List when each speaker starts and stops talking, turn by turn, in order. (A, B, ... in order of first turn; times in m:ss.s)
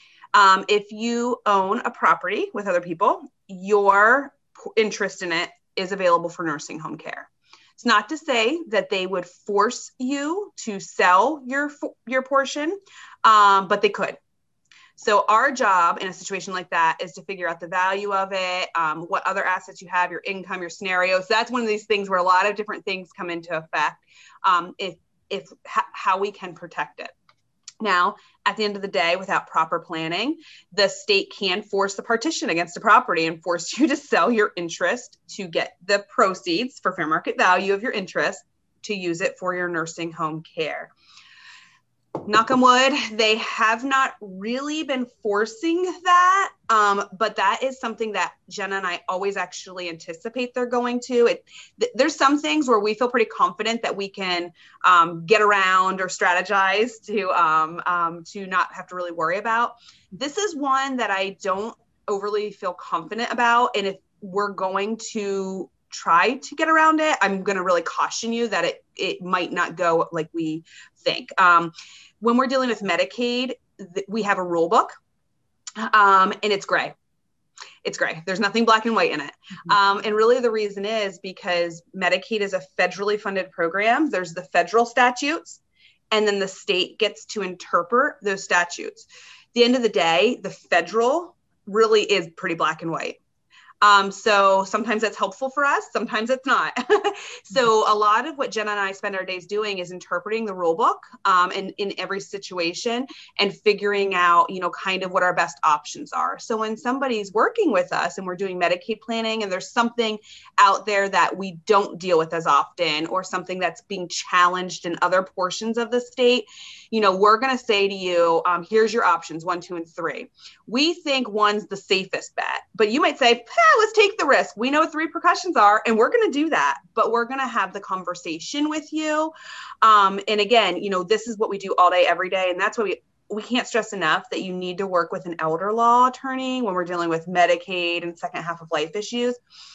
0:00.3-0:14.2 A
0:15.0-0:27.1 A
0:27.8-0:40.9 A
0:42.2-1:14.9 A
1:15.8-1:16.9 A
1:17.8-1:33.2 A
1:33.8-2:19.4 A